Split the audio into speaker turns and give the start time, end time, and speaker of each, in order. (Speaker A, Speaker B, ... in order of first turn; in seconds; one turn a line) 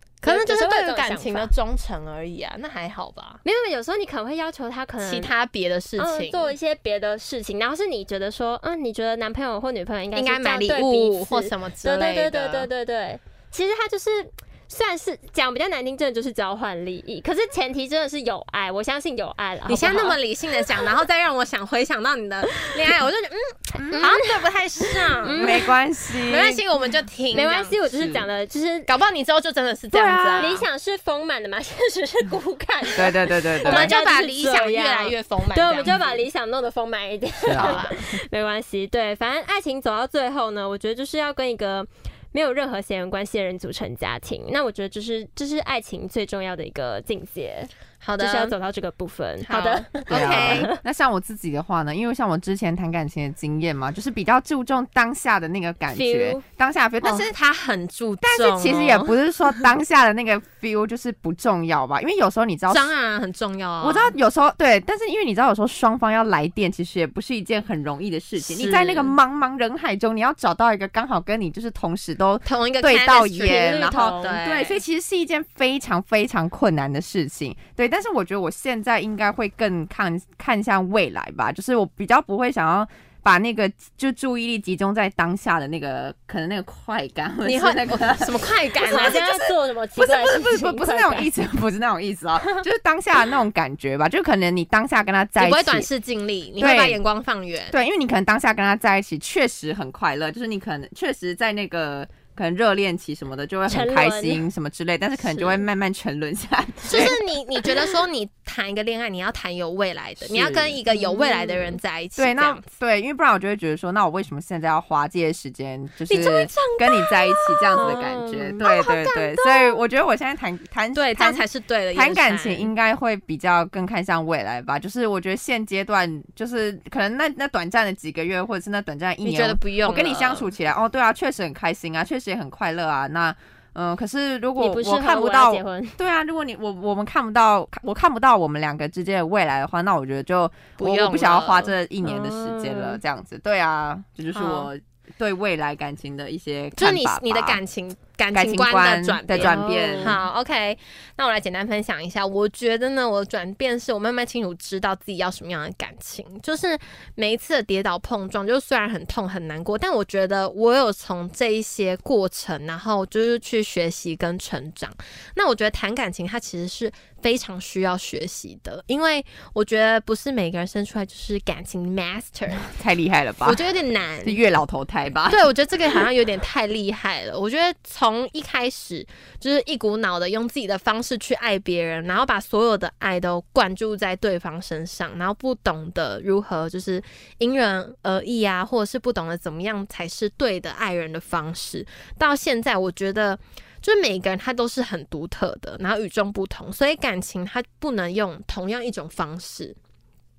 Speaker A: 0.2-3.4
Speaker B: 0.2-1.5
Speaker B: 3.4-5.3
Speaker A: 5.0-6.5
Speaker B: 6.0-20.2
Speaker A: 10.1-12.7
Speaker A: 19.7-25.6
Speaker C: 23.8-24.1
Speaker B: 23.9-24.2
Speaker B: 25.2-25.7
Speaker C: 25.4-26.6
Speaker A: 26.3-27.8
Speaker B: 27.3-28.9
Speaker C: 27.9-28.2
Speaker A: 28.9-30.6
Speaker C: 29.9-30.6
Speaker B: 30.4-50.8
Speaker C: 33.0-34.0
Speaker A: 33.6-36.2
Speaker C: 37.4-37.9
Speaker A: 37.5-38.0
Speaker A: 48.0-48.5
Speaker A: 49.5-50.7
Speaker C: 50.1-57.3
Speaker B: 55.9-56.4
Speaker A: 57.0-59.2
Speaker C: 58.2-62.9
Speaker A: 62.7-64.1
Speaker C: 63.8-89.3
Speaker A: 68.4-69.2
Speaker A: 72.4-74.8
Speaker B: 73.4-74.3
Speaker A: 87.4-89.4
Speaker B: 88.8-91.3
Speaker C: 90.0-95.9
Speaker A: 95.4-97.7
Speaker C: 96.6-97.0
Speaker C: 97.7-107.2
Speaker B: 103.7-104.4
Speaker A: 106.8-112.7
Speaker C: 110.2-110.8
Speaker B: 110.9-111.7
Speaker C: 112.2-147.6
Speaker A: 116.1-118.0
Speaker B: 117.8-118.6
Speaker A: 118.6-119.8
Speaker A: 120.9-122.7
Speaker A: 129.2-130.5
Speaker B: 134.6-136.0
Speaker A: 140.8-141.7
Speaker B: 142.0-143.0
Speaker A: 144.3-144.7
Speaker A: 146.8-172.7
Speaker C: 148.3-150.2
Speaker B: 149.3-150.2
Speaker C: 172.7-173.7
Speaker A: 173.4-174.5
Speaker C: 174.2-175.4
Speaker A: 175.3-199.8